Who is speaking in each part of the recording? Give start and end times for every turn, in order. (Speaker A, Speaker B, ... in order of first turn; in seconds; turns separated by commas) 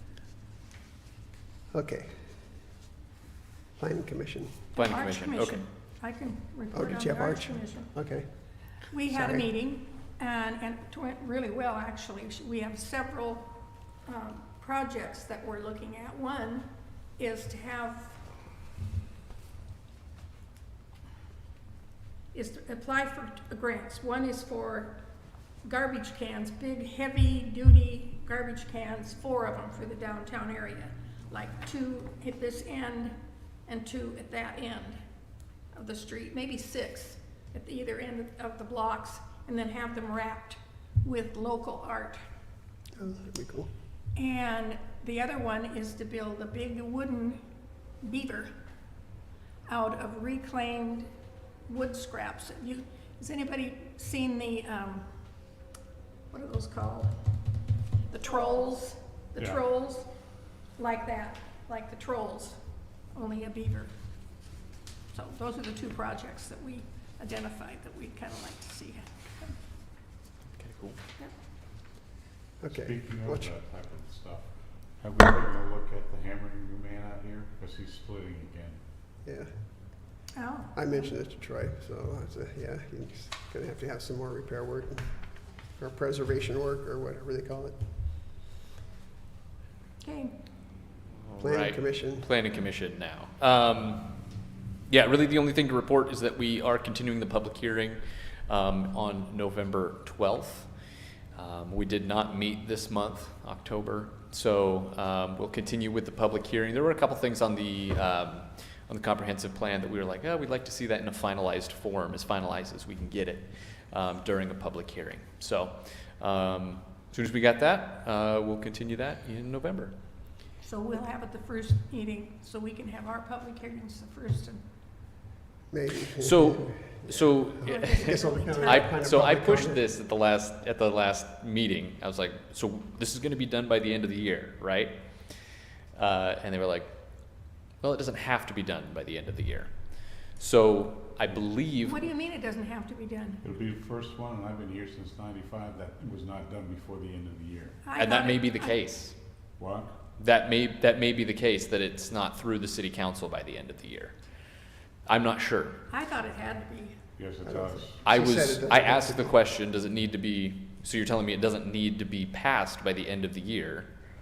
Speaker A: 1.7-2.1, Speaker A: 3.8-4.6, Speaker B: 4.8-5.6, Speaker C: 4.8-7.9, Speaker A: 6.7-8.3, Speaker C: 8.9-18.2, Speaker A: 9.1-9.5, Speaker C: 22.3-25.0, Speaker C: 25.6-33.1, Speaker C: 33.6-35.0, Speaker C: 35.7-42.2, Speaker A: 42.9-43.7, Speaker C: 44.1-47.4, Speaker C: 48.0-48.5, Speaker C: 49.7-51.1, Speaker C: 51.7-55.1, Speaker C: 56.3-57.1, Speaker C: 58.1-60.1, Speaker C: 60.8-62.6, Speaker C: 63.1-63.9, Speaker C: 65.1-69.5, Speaker B: 70.5-71.0, Speaker A: 72.6-73.5, Speaker D: 72.7-74.5, Speaker D: 75.0-78.8, Speaker C: 80.3-80.8, Speaker A: 80.7-85.0, Speaker A: 85.8-87.7, Speaker C: 90.0-90.3, Speaker B: 91.2-94.2, Speaker A: 91.4-92.3, Speaker B: 94.9-100.7, Speaker B: 101.3-119.9, Speaker C: 120.6-124.6, Speaker A: 125.7-129.8, Speaker B: 126.1-142.1, Speaker C: 127.7-128.9, Speaker C: 141.8-143.4, Speaker D: 143.4-147.8, Speaker C: 147.8-148.8, Speaker B: 147.9-149.1, Speaker D: 149.6-149.9, Speaker B: 150.2-154.2, Speaker B: 155.1-155.8, Speaker C: 155.9-157.0, Speaker D: 157.2-158.0, Speaker A: 157.4-159.4, Speaker B: 158.0-163.9